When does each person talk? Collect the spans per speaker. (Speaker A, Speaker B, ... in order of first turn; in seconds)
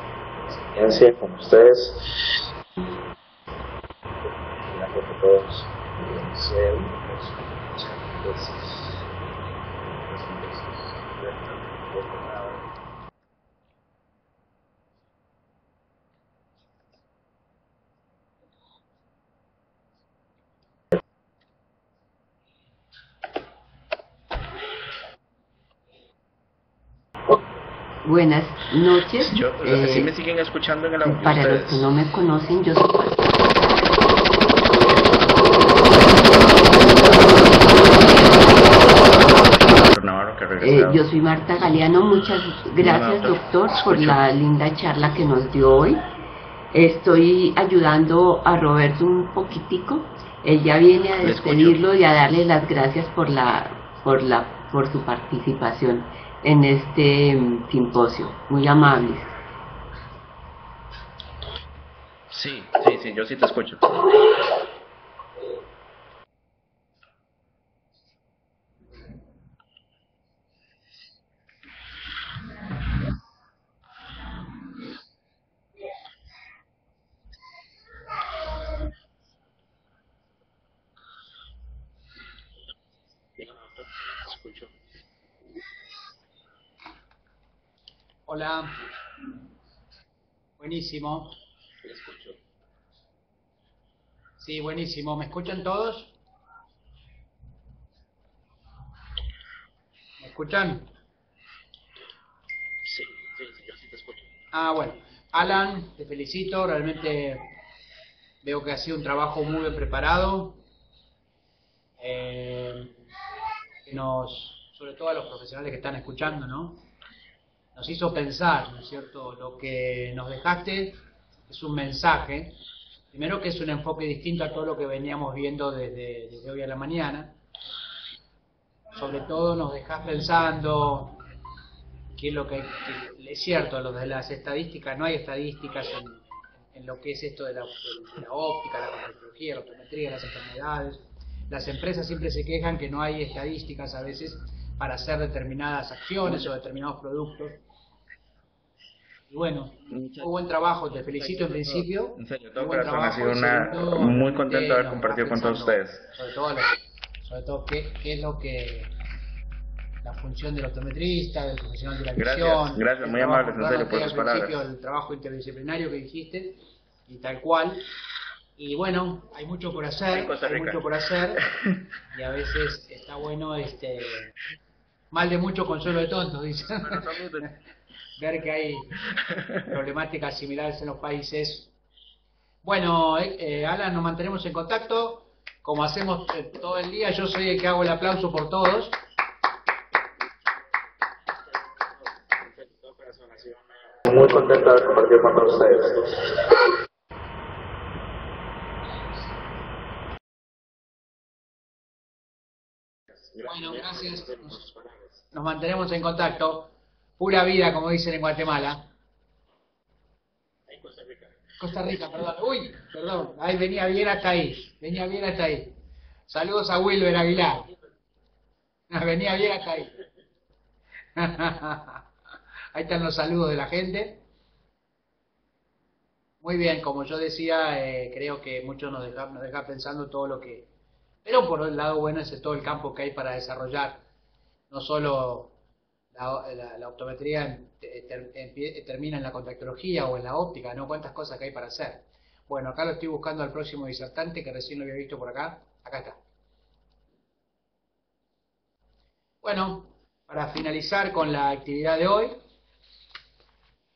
Speaker A: 0.7-2.5, 4.6-12.7, 29.2-31.9, 36.6-41.0, 42.8-44.2, 51.2-51.8, 62.3-64.5, 83.4-84.7, 91.8-92.4, 102.9-104.2, 149.9-150.3, 151.2-156.1, 162.2-164.6, 170.1-170.8, 176.8-177.5, 192.5-196.7, 203.3-205.0, 210.7-211.1
Speaker B: 28.1-30.1, 31.1-33.7, 40.6-46.0, 46.7-59.3
Speaker C: 88.3-88.8, 90.6-91.4, 94.4-96.1, 100.2-100.9, 104.5-107.5, 108.4-110.6, 112.0-113.0, 113.8-116.8, 117.7-122.6, 123.1-127.4, 128.9-131.2, 132.2-147.6, 149.3-158.9, 160.0-167.8, 168.6-171.4, 172.1-174.3, 175.1-177.6, 178.2-179.0, 179.6-181.7, 182.6-189.0, 203.4-204.7, 205.3-208.9, 211.6-215.7, 216.3-217.7, 218.9-219.9, 221.2-222.0, 222.7-224.2, 226.4-230.7, 231.2-234.0, 234.7-235.5, 236.1-246.2, 249.4-252.4